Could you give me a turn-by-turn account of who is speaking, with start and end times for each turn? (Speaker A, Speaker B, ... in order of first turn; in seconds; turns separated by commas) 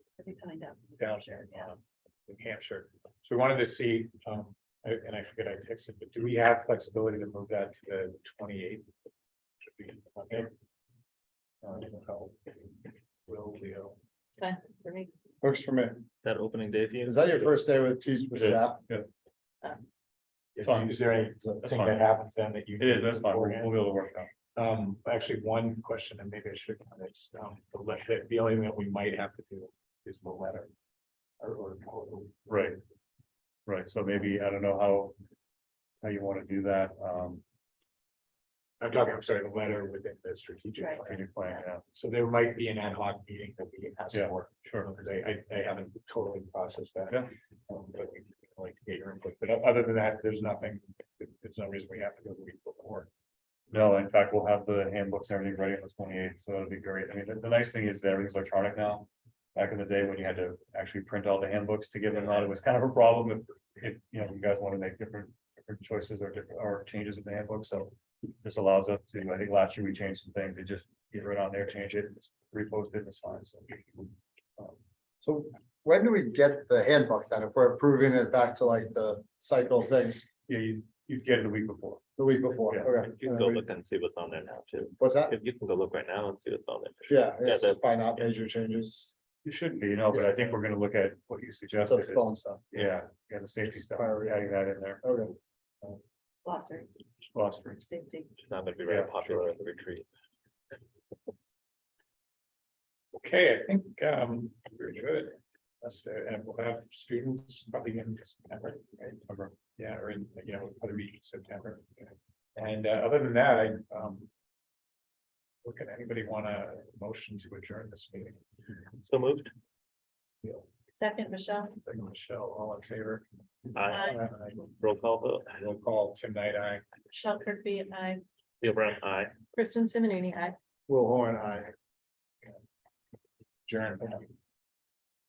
Speaker A: 0.2-1.7, Speaker B: 1.0-8.9, Speaker B: 9.6-10.5, Speaker B: 11.6-12.7, Speaker B: 13.2-14.0, Speaker A: 14.4-15.1, Speaker C: 15.4-16.1, Speaker D: 16.2-17.5, Speaker C: 17.0-18.8, Speaker E: 18.4-19.1, Speaker B: 20.5-23.8, Speaker E: 20.6-22.1, Speaker E: 22.8-24.3, Speaker B: 24.5-30.7, Speaker B: 31.4-32.5, Speaker E: 32.5-32.8, Speaker E: 33.6-35.1, Speaker E: 36.0-37.4, Speaker B: 38.8-41.3, Speaker E: 41.0-41.8, Speaker B: 41.9-53.1, Speaker E: 44.1-44.9, Speaker E: 53.7-74.8, Speaker C: 75.2-80.2, Speaker E: 80.5-82.0, Speaker C: 82.2-83.6, Speaker D: 83.0-88.3, Speaker C: 85.0-85.3, Speaker C: 87.1-89.1, Speaker E: 89.4-95.0, Speaker C: 90.1-90.4, Speaker C: 91.8-92.6, Speaker C: 93.9-95.3, Speaker A: 96.4-96.9, Speaker E: 97.3-97.8, Speaker A: 97.7-98.4, Speaker D: 98.4-100.1, Speaker E: 98.9-99.6, Speaker B: 103.1-114.3, Speaker E: 109.3-109.5, Speaker B: 115.6-118.4, Speaker D: 119.0-119.5, Speaker B: 120.4-120.7, Speaker A: 120.9-121.8, Speaker B: 121.8-124.6, Speaker D: 123.7-124.3, Speaker A: 123.9-124.2, Speaker D: 124.8-125.5, Speaker B: 125.5-126.9, Speaker A: 127.1-128.2, Speaker D: 128.6-129.3, Speaker A: 129.5-130.6, Speaker C: 130.9-131.7, Speaker B: 133.7-134.2